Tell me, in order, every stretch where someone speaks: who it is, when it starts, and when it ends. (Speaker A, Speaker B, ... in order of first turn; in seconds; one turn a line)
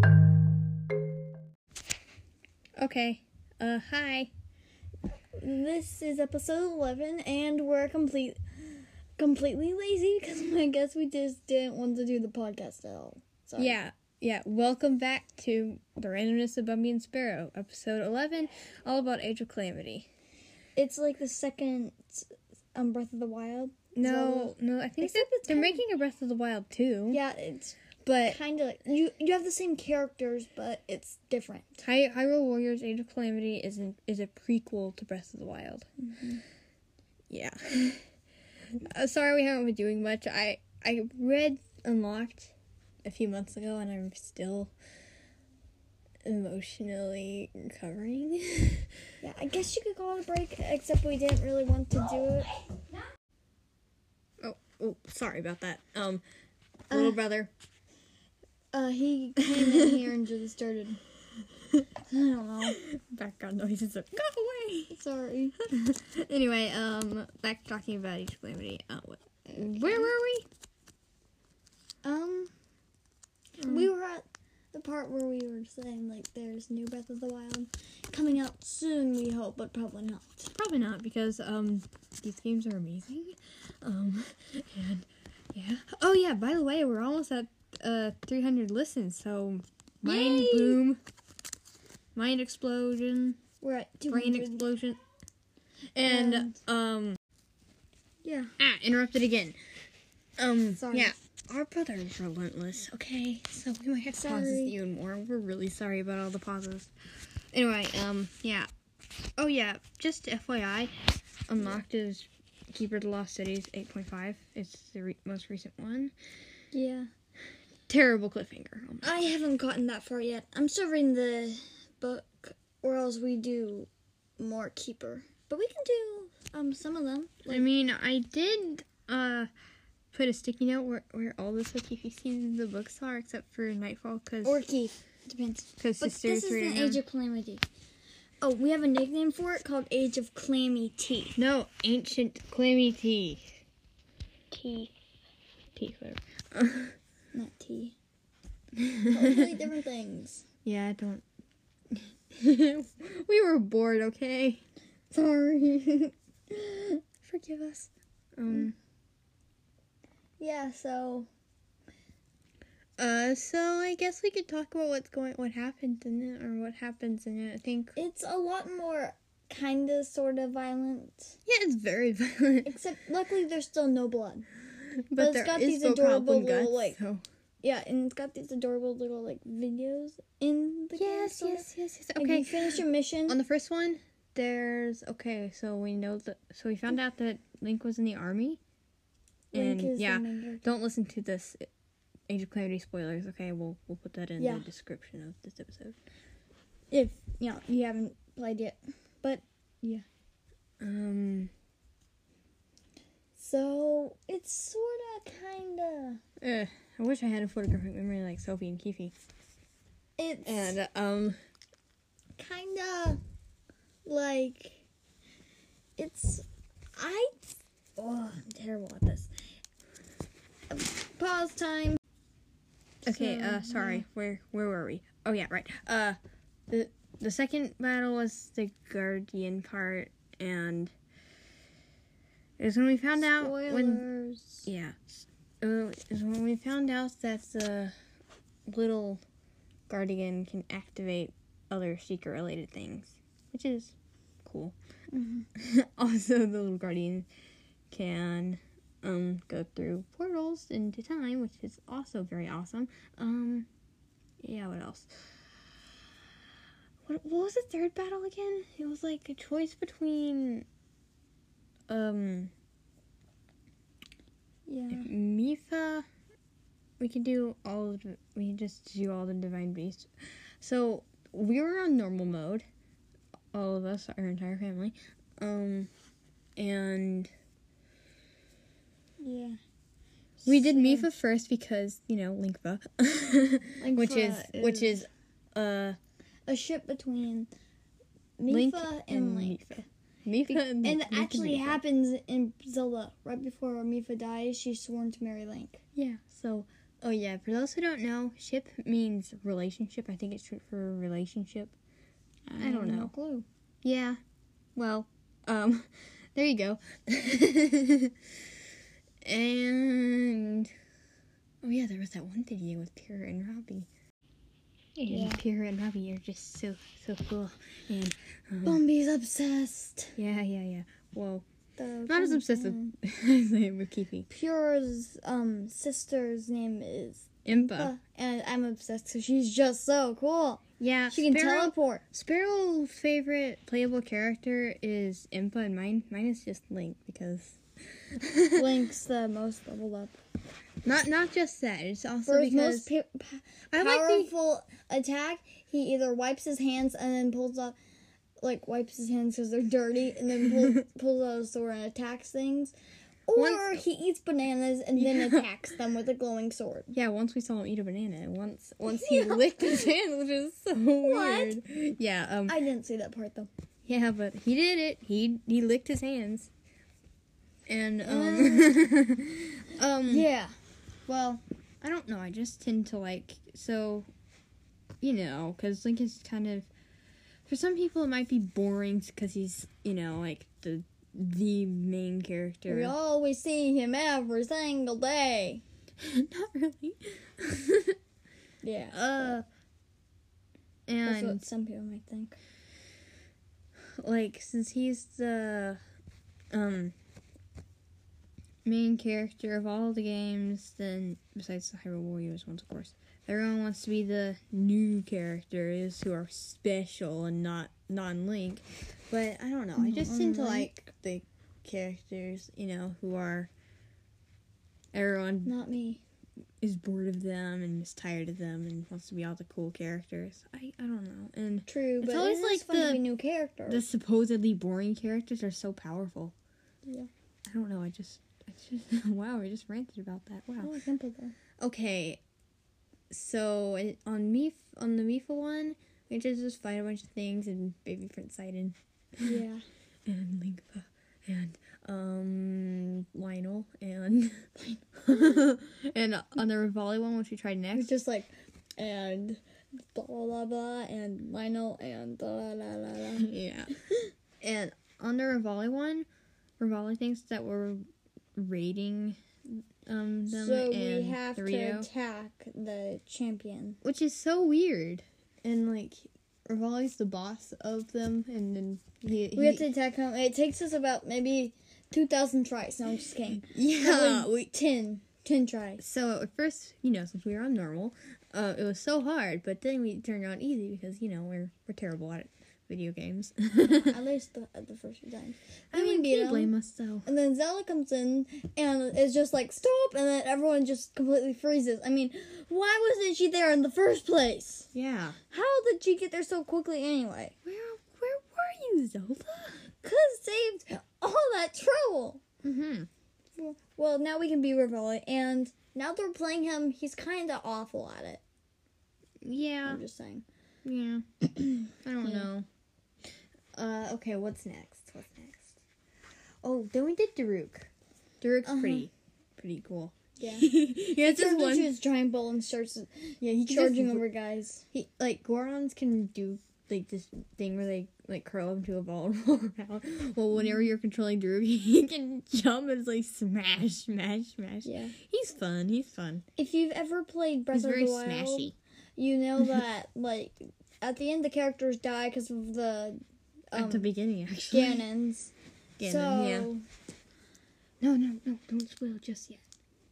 Speaker A: 2.8-4.3
Speaker B: 5.4-8.4
Speaker B: 9.2-13.8
Speaker A: 13.6-20.1
Speaker B: 20.8-25.8
Speaker A: 23.9-27.2
Speaker B: 27.1-31.8
Speaker A: 28.1-28.4
Speaker A: 31.8-35.9
Speaker B: 36.0-36.4
Speaker A: 37.3-38.0
Speaker A: 38.7-42.5
Speaker A: 43.0-44.7
Speaker A: 46.2-48.9
Speaker B: 49.2-52.5
Speaker A: 54.4-56.2
Speaker B: 56.9-57.2
Speaker A: 56.9-57.5
Speaker B: 58.7-61.0
Speaker A: 59.4-60.0
Speaker B: 62.1-62.8
Speaker A: 62.7-65.0
Speaker B: 64.9-65.6
Speaker A: 65.6-70.5
Speaker B: 69.5-70.1
Speaker B: 72.0-72.5
Speaker A: 73.6-73.9
Speaker B: 73.6-80.5
Speaker A: 80.5-91.0
Speaker B: 90.0-90.8
Speaker A: 92.1-93.4
Speaker B: 93.6-94.6
Speaker A: 94.1-95.0
Speaker A: 95.9-97.2
Speaker B: 96.0-96.5
Speaker B: 98.2-98.5
Speaker A: 98.6-99.6
Speaker A: 100.4-106.9
Speaker B: 100.8-101.1
Speaker B: 104.1-104.8
Speaker A: 107.5-108.7
Speaker A: 109.4-110.9
Speaker A: 111.5-116.1
Speaker B: 116.7-117.1
Speaker A: 117.9-119.1
Speaker B: 119.0-127.6
Speaker A: 127.5-129.5
Speaker A: 130.1-134.6
Speaker B: 134.4-137.6
Speaker A: 135.8-137.0
Speaker B: 138.4-141.4
Speaker A: 141.3-143.6
Speaker B: 144.5-144.9
Speaker A: 145.8-146.9
Speaker B: 147.3-147.9
Speaker A: 148.8-149.5
Speaker B: 149.1-150.4
Speaker A: 150.6-151.2
Speaker A: 151.9-154.6
Speaker B: 155.1-157.9
Speaker A: 158.3-158.8
Speaker B: 160.4-161.3
Speaker A: 163.0-167.9
Speaker B: 167.9-171.3
Speaker A: 171.5-172.7
Speaker B: 172.6-174.4
Speaker A: 175.1-177.2
Speaker B: 175.2-177.0
Speaker B: 177.6-183.4
Speaker A: 180.9-188.6
Speaker A: 189.5-191.7
Speaker B: 189.5-190.6
Speaker A: 192.3-195.9
Speaker B: 194.4-194.7
Speaker B: 196.9-200.0
Speaker A: 200.8-201.5
Speaker B: 203.4-206.2
Speaker A: 206.4-209.1
Speaker B: 210.2-210.8
Speaker A: 210.4-211.3
Speaker B: 212.4-213.2
Speaker B: 214.1-214.8
Speaker B: 216.0-217.3
Speaker B: 218.0-219.3
Speaker B: 220.7-222.0
Speaker B: 223.0-224.0
Speaker A: 223.0-230.9
Speaker A: 232.6-234.0
Speaker B: 233.3-234.7
Speaker A: 234.7-237.9
Speaker A: 238.7-239.2
Speaker A: 239.9-244.8
Speaker B: 245.1-245.5
Speaker A: 245.6-247.3
Speaker A: 247.9-253.7
Speaker A: 254.4-255.1
Speaker A: 257.1-260.6
Speaker A: 261.9-262.5
Speaker B: 264.7-265.1
Speaker A: 264.9-266.1
Speaker A: 267.0-270.1
Speaker A: 270.6-272.6
Speaker A: 273.5-275.9
Speaker A: 276.6-277.3
Speaker B: 279.2-279.6
Speaker B: 280.4-281.1
Speaker A: 280.4-286.0
Speaker B: 283.8-285.0
Speaker B: 286.5-287.5
Speaker B: 288.4-289.8
Speaker A: 288.5-291.8
Speaker B: 290.5-295.8
Speaker A: 295.9-301.7
Speaker B: 302.5-303.4
Speaker A: 302.5-303.1
Speaker A: 303.8-304.2
Speaker A: 304.8-308.2
Speaker A: 309.2-310.7
Speaker A: 311.6-313.9
Speaker A: 314.9-318.8
Speaker B: 315.1-315.4
Speaker B: 318.6-320.1
Speaker A: 320.1-321.4
Speaker B: 321.8-322.9
Speaker A: 322.1-324.3
Speaker B: 324.3-332.1
Speaker A: 327.4-327.9
Speaker A: 330.8-338.8
Speaker B: 338.5-340.2
Speaker A: 340.8-342.9
Speaker B: 342.2-347.8
Speaker A: 343.7-344.3
Speaker B: 348.4-352.7
Speaker B: 353.3-356.9
Speaker A: 353.3-353.8
Speaker A: 354.9-355.4
Speaker A: 356.9-362.6
Speaker B: 358.9-359.9
Speaker B: 361.0-361.6
Speaker B: 362.5-363.5
Speaker A: 363.8-366.5
Speaker A: 367.7-370.3
Speaker B: 368.0-368.8
Speaker B: 370.1-370.6
Speaker A: 371.1-374.1
Speaker A: 375.0-376.7
Speaker A: 377.5-382.9
Speaker B: 382.7-385.6
Speaker A: 386.0-388.0
Speaker B: 388.6-389.4
Speaker A: 388.9-389.4
Speaker A: 390.9-391.4
Speaker B: 391.1-392.4
Speaker A: 393.8-395.8
Speaker A: 396.5-396.9
Speaker A: 398.6-413.5
Speaker B: 409.8-410.7
Speaker A: 414.9-415.5
Speaker B: 415.4-416.0
Speaker A: 416.6-423.0
Speaker B: 421.7-423.8
Speaker A: 423.7-426.3
Speaker A: 427.5-430.7
Speaker B: 430.6-431.4
Speaker A: 431.6-432.2
Speaker A: 433.1-439.4
Speaker B: 439.2-439.6
Speaker A: 440.1-447.9
Speaker B: 444.6-445.4
Speaker B: 447.7-453.3
Speaker A: 453.1-453.7
Speaker A: 454.4-456.1
Speaker A: 456.6-457.8
Speaker A: 458.3-461.9
Speaker B: 460.3-463.8
Speaker A: 463.8-469.7
Speaker B: 469.3-475.8
Speaker A: 473.4-474.4
Speaker A: 475.8-484.0
Speaker B: 483.6-486.5
Speaker A: 485.7-487.1
Speaker B: 487.1-494.7
Speaker A: 494.7-495.2
Speaker B: 495.3-497.4
Speaker A: 497.4-499.8
Speaker B: 499.8-502.2
Speaker A: 502.4-502.9
Speaker B: 503.4-508.2
Speaker A: 509.2-509.8
Speaker B: 509.6-510.2
Speaker A: 510.6-511.0
Speaker B: 511.4-512.3
Speaker A: 511.7-512.5
Speaker A: 513.5-515.5
Speaker A: 516.4-517.7
Speaker A: 518.2-521.8
Speaker B: 518.5-518.9
Speaker B: 520.2-524.6
Speaker A: 523.2-524.1
Speaker A: 524.7-536.2
Speaker B: 534.6-535.0
Speaker B: 536.4-543.9
Speaker A: 537.5-538.5
Speaker A: 543.5-544.9
Speaker B: 544.5-546.6
Speaker A: 545.8-546.5
Speaker A: 547.8-549.4